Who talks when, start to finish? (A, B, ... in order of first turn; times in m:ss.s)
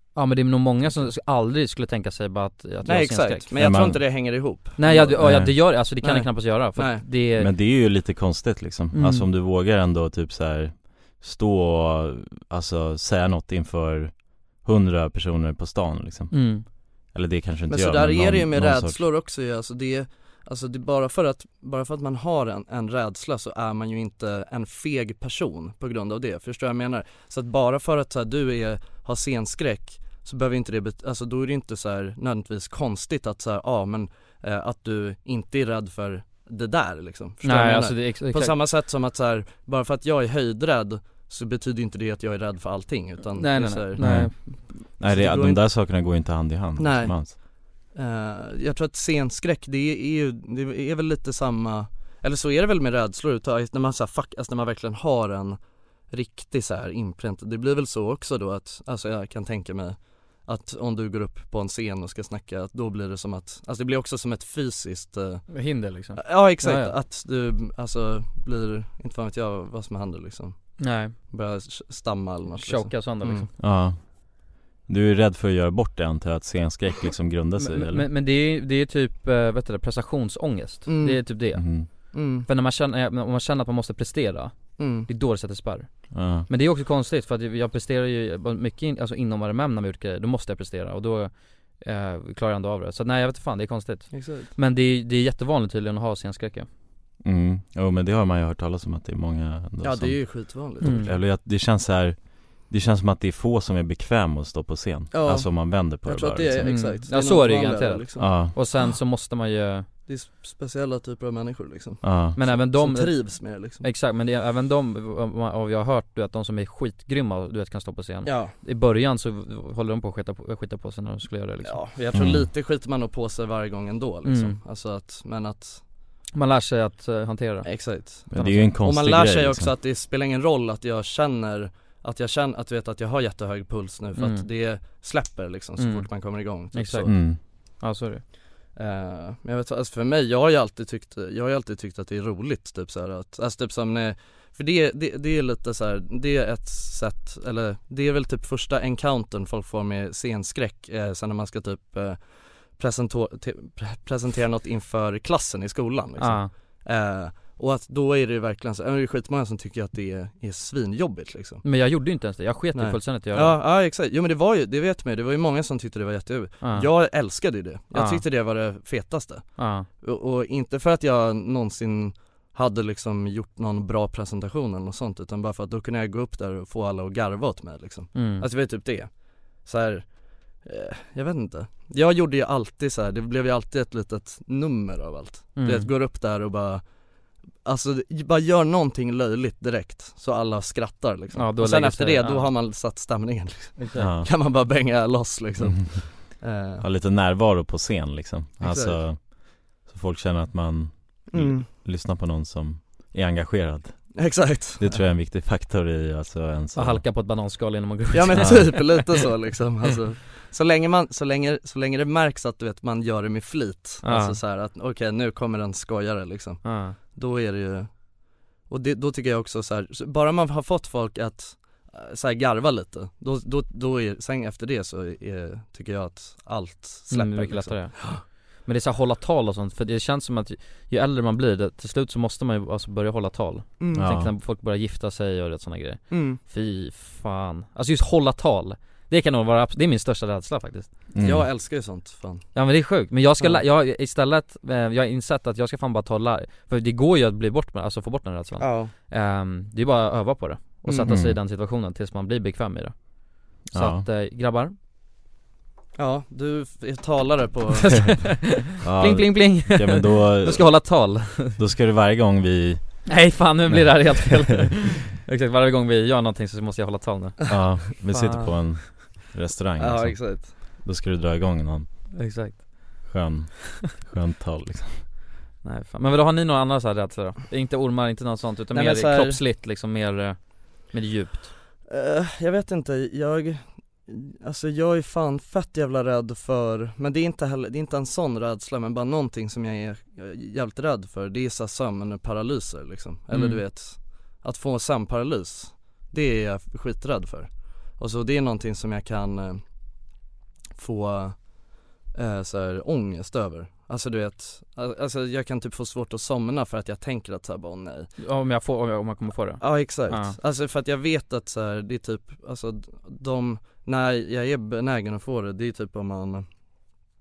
0:00.1-0:03.5 A
0:02.8-0:07.0 B
0:03.6-0:04.4 C
0:04.8-0:07.5 A
0:05.2-0:05.7 C
0:07.3-0:19.0 C
0:08.9-0:09.3 A
0:16.3-0:16.6 A
0:17.7-0:45.6 B
0:37.4-0:38.6 A
0:43.4-0:44.5 A
0:44.0-0:47.4 C
0:46.8-1:13.5 B
1:05.5-1:06.9 A
1:10.8-1:11.1 A
1:12.5-1:13.5 A
1:13.6-1:18.1 C
1:17.6-1:36.7 A
1:20.8-1:21.4 B
1:21.5-1:21.9 C
1:22.0-1:22.5 B
1:24.8-1:25.1 B
1:26.1-1:26.4 C
1:34.1-1:34.5 B
1:37.2-1:46.8 C
1:39.8-1:41.1 B
1:40.8-1:41.1 A
1:45.1-1:48.9 B
1:46.6-1:49.9 A
1:48.2-1:48.5 C
1:50.0-1:53.8 B
1:52.0-1:52.4 C
1:52.3-2:01.8 A
1:58.2-1:58.5 B
2:01.6-2:05.8 B
2:02.1-2:02.5 C
2:04.2-2:04.6 A
2:06.3-2:08.7 A
2:07.6-2:17.1 B
2:08.3-2:09.7 C
2:14.2-2:14.5 A
2:15.8-2:18.2 A
2:17.0-2:17.4 C
2:18.8-2:41.6 B
2:36.2-2:36.5 A
2:41.6-2:43.6 A
2:42.7-3:06.8 B
2:46.6-2:47.1 A
2:47.9-2:48.2 A
2:49.6-2:49.8 A
2:58.1-2:58.4 A
3:05.6-3:05.9 A
3:07.6-3:16.8 B
3:11.4-3:12.5 A
3:13.8-3:14.1 A
3:13.9-3:14.3 C
3:15.6-3:16.0 C
3:16.8-3:24.0 C
3:18.6-3:19.0 B
3:21.3-3:21.7 B
3:24.1-3:25.0 B
3:24.8-3:27.0 C
3:26.7-3:29.0 A
3:28.1-3:38.0 B
3:28.4-3:28.7 C
3:34.0-3:34.4 A
3:36.6-3:37.0 A
3:38.6-3:48.2 B
3:47.1-4:00.9 A
3:53.8-3:54.1 B
3:53.9-3:54.3 C
3:56.1-3:56.4 B
4:01.1-4:01.5 C
4:01.2-4:02.5 B
4:02.5-4:12.9 A
4:08.6-4:08.9 B
4:10.8-4:11.1 B
4:11.1-4:11.4 C
4:13.6-4:14.7 A
4:13.7-4:14.0 C
4:16.0-4:18.3 B
4:17.8-4:21.6 A
4:18.8-4:22.8 C
4:23.1-4:28.5 A
4:23.7-4:24.3 C
4:27.5-4:31.9 C
4:29.8-4:30.6 B
4:32.1-4:33.1 A
4:33.0-4:35.0 C
4:35.6-4:41.5 A
4:38.7-4:39.4 B
4:41.9-4:59.6 B
4:53.3-4:53.6 A
5:00.8-5:08.1 B
5:08.2-5:10.4 A
5:09.6-5:16.4 B